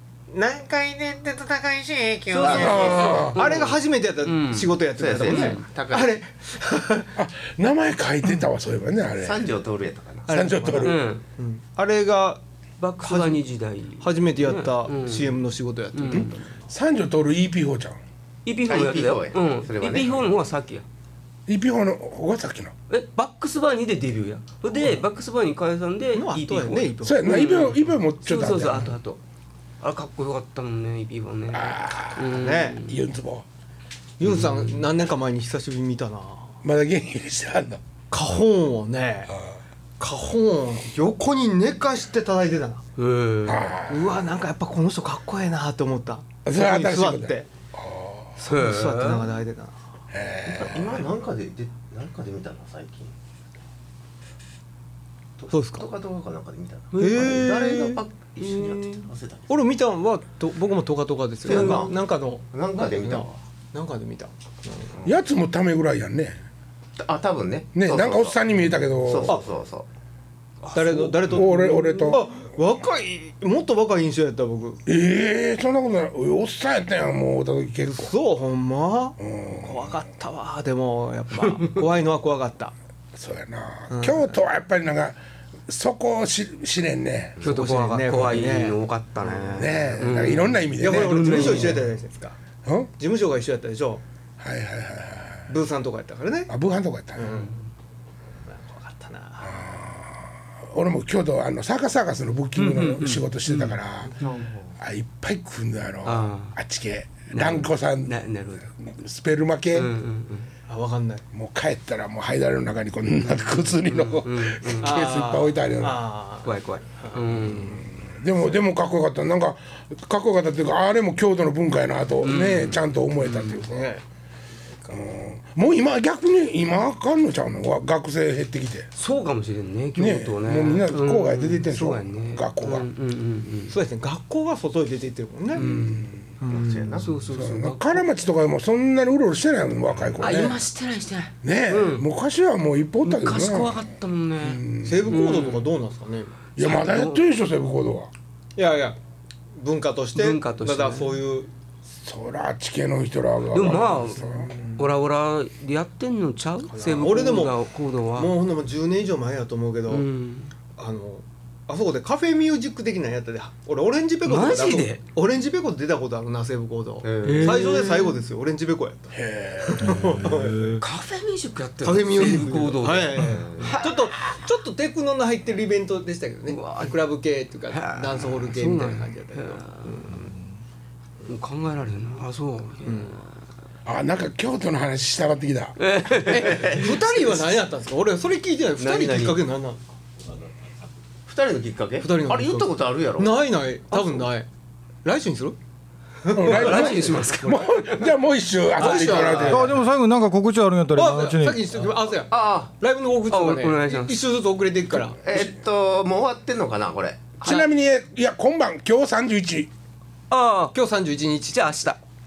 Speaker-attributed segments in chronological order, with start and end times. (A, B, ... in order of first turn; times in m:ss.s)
0:00.3-0:07.1 A
0:02.3-0:05.6 B
0:02.4-0:03.2 C
0:02.4-0:03.4 D
0:05.0-0:06.2 C
0:07.2-0:09.5 D
0:09.2-0:10.3 C
0:10.3-0:12.4 A
0:10.3-0:11.0 D
0:10.8-0:11.2 B
0:12.8-0:15.4 B
0:13.0-0:13.4 A
0:14.0-0:16.5 A
0:15.9-0:16.3 B
0:16.1-0:18.0 D
0:18.4-0:20.8 B
0:18.7-0:20.3 C
0:21.5-0:22.7 D
0:22.9-0:29.2 B
0:26.1-0:27.5 A
0:27.0-0:29.0 D
0:29.8-0:33.0 B
0:31.5-0:33.4 D
0:32.4-0:32.8 A
0:34.2-0:36.6 A
0:34.2-0:34.8 B
0:36.6-0:37.8 D
0:38.1-0:39.4 A
0:40.0-0:42.8 A
0:43.0-0:43.7 B
0:43.4-0:44.2 D
0:43.9-0:47.5 A
0:46.4-0:48.3 D
0:48.4-0:49.8 A
0:48.4-0:49.3 B
0:50.1-0:51.1 D
0:50.5-0:53.1 C
0:55.4-0:59.5 C
0:55.5-0:55.9 A
0:56.9-0:57.8 B
0:57.0-0:58.0 A
0:58.4-0:59.1 B
0:59.5-1:05.0 A
1:01.4-1:03.4 C
1:01.5-1:01.8 B
1:05.0-1:06.4 D
1:07.0-1:09.9 C
1:07.8-1:09.4 D
1:10.6-1:11.4 B
1:10.7-1:14.8 A
1:10.9-1:12.2 D
1:14.9-1:18.1 D
1:17.8-1:22.7 A
1:19.2-1:19.9 D
1:23.2-1:27.4 D
1:23.9-1:24.4 A
1:27.4-1:31.9 B
1:27.4-1:28.8 A
1:29.5-1:31.8 D
1:30.8-1:32.4 A
1:32.6-1:32.9 D
1:33.0-1:34.0 A
1:34.4-1:35.5 D
1:35.5-1:36.5 A
1:36.5-1:37.4 D
1:37.2-1:37.5 A
1:38.5-1:39.6 A
1:39.4-1:44.1 D
1:42.6-1:44.5 B
1:44.2-1:44.5 A
1:44.8-1:48.1 D
1:46.0-1:46.6 B
1:47.3-1:48.7 B
1:48.8-1:49.9 D
1:49.7-1:50.5 B
1:50.7-1:51.2 A
1:51.3-1:56.0 D
1:53.2-1:55.2 B
1:54.8-1:57.2 A
1:56.4-1:57.9 B
1:57.4-2:03.9 D
2:02.2-2:03.6 B
2:03.6-2:04.0 A
2:04.9-2:08.9 D
2:09.0-2:13.8 B
2:10.0-2:12.9 D
2:13.7-2:15.7 A
2:15.6-2:16.1 B
2:15.6-2:16.3 D
2:16.4-2:17.0 A
2:16.4-2:17.1 C
2:17.0-2:18.1 B
2:17.2-2:20.6 D
2:20.2-2:22.1 B
2:21.4-2:23.8 D
2:23.0-2:25.7 B
2:24.4-2:25.3 D
2:24.8-2:26.3 A
2:26.6-2:28.1 D
2:26.6-2:27.2 B
2:28.6-2:29.0 A
2:29.6-2:31.5 A
2:30.2-2:31.2 B
2:32.0-2:34.5 D
2:33.5-2:38.3 B
2:34.3-2:34.8 A
2:36.7-2:37.6 A
2:38.2-2:40.1 A
2:39.9-2:40.5 B
2:40.8-2:50.8 A
2:44.2-2:45.0 B
2:47.0-2:47.8 C
2:47.2-2:48.2 B
2:49.1-2:50.1 D
2:50.0-2:50.8 E
2:50.8-2:53.8 B
2:51.8-3:00.1 A
2:53.2-2:53.8 C
2:56.5-2:56.9 B
2:57.7-3:00.2 B
3:01.3-3:03.3 B
3:02.9-3:03.2 A
3:03.9-3:05.8 D
3:05.8-3:06.9 B
3:06.3-3:06.7 D
3:06.3-3:07.3 C
3:06.7-3:09.8 A
3:08.8-3:09.4 C
3:11.3-3:13.4 C
3:12.0-3:14.5 A
3:13.9-3:14.2 B
3:15.0-3:15.6 A
3:16.2-3:17.0 A
3:16.3-3:19.8 D
3:16.4-3:18.1 B
3:18.8-3:19.7 A
3:18.8-3:19.7 C
3:19.0-3:19.4 B
3:19.5-3:21.7 E
3:20.9-3:25.2 A
3:22.3-3:22.7 C
3:23.3-3:24.2 B
3:25.2-3:27.6 C
3:27.4-3:29.7 D
3:30.3-3:30.8 B
3:30.7-3:31.6 A
3:31.5-3:32.0 B